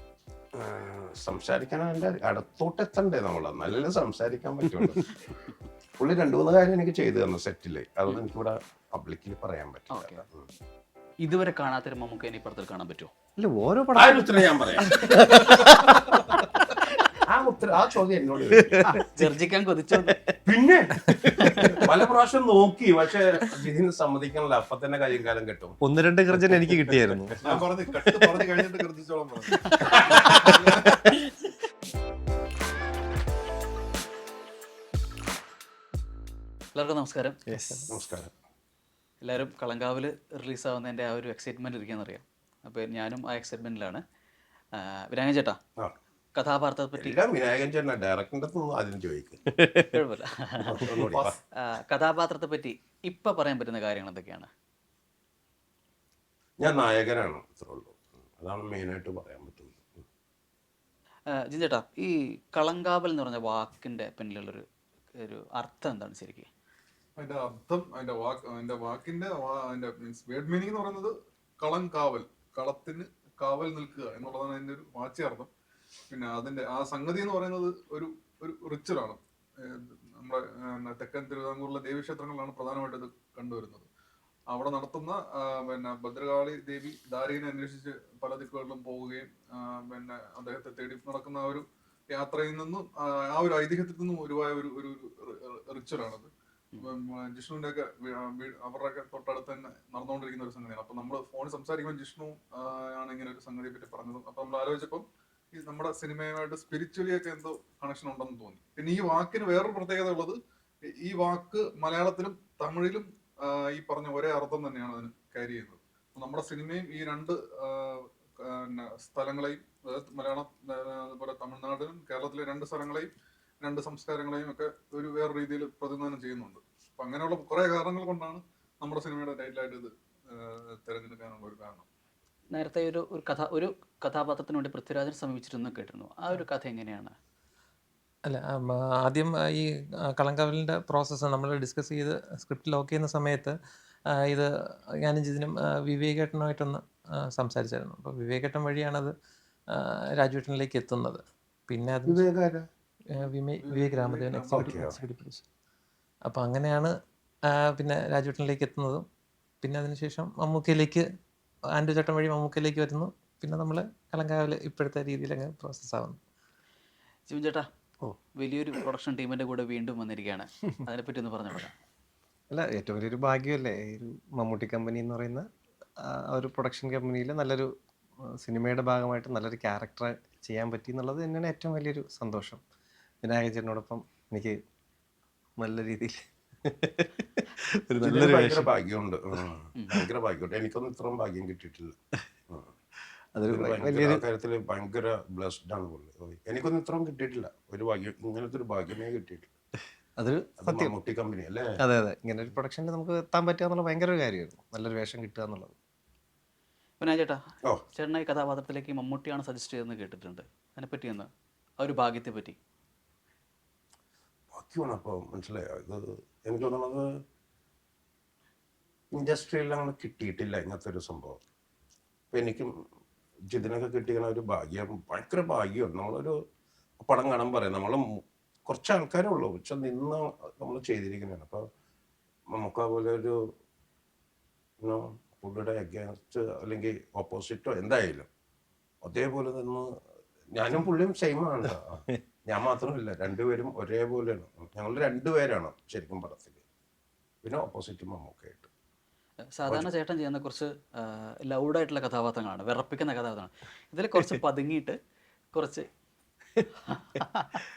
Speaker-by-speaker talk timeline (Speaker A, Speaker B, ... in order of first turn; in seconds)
Speaker A: 0.6-5.1, 6.0-10.5, 13.9-15.4, 17.3-18.8, 20.5-21.1, 21.7-25.8, 29.8-30.5, 37.9-38.3, 47.0-49.4, 50.6-51.4, 56.6-60.0, 152.1-152.7, 154.5-154.9, 188.0-192.0, 193.5-199.5, 200.6-201.7, 214.5-217.2, 219.1-221.4, 222.3-222.7, 223.5-226.4, 227.0-231.7, 232.5-233.4, 234.8-238.3, 239.0-239.9, 240.5-246.6, 247.4-248.7
Speaker B: 9.9-10.2, 11.2-13.1, 18.9-20.2, 21.4-21.8, 36.8-37.7, 39.2-44.0, 44.8-45.6, 46.4-47.2, 49.9-54.5, 61.3-64.7, 65.2-66.5, 132.5-137.2, 167.3-167.7, 168.4-171.7, 189.8-190.0, 207.0-207.4, 207.9-211.3, 211.8-212.6, 249.5-255.0, 255.5-255.9, 257.1-257.5
Speaker C: 13.4-17.1, 18.5-19.4, 19.9-20.3, 21.0-21.9, 25.8-28.7, 30.2-31.2, 37.5-37.8, 49.6-49.9, 50.9-51.2, 172.5-175.5, 176.0-177.7, 178.4-182.6, 183.2-184.6, 185.6-188.7, 193.3-194.2, 200.2-200.9, 201.8-205.7
Speaker D: 27.4-31.0, 67.2-75.5, 76.1-83.9, 84.5-123.1, 123.6-131.8, 153.2-154.9
Speaker E: 138.3-143.6, 144.1-144.5, 145.0-149.1, 149.7-152.2, 153.1-155.4, 156.3-156.9, 157.5-159.0, 159.6-161.1, 161.8-166.2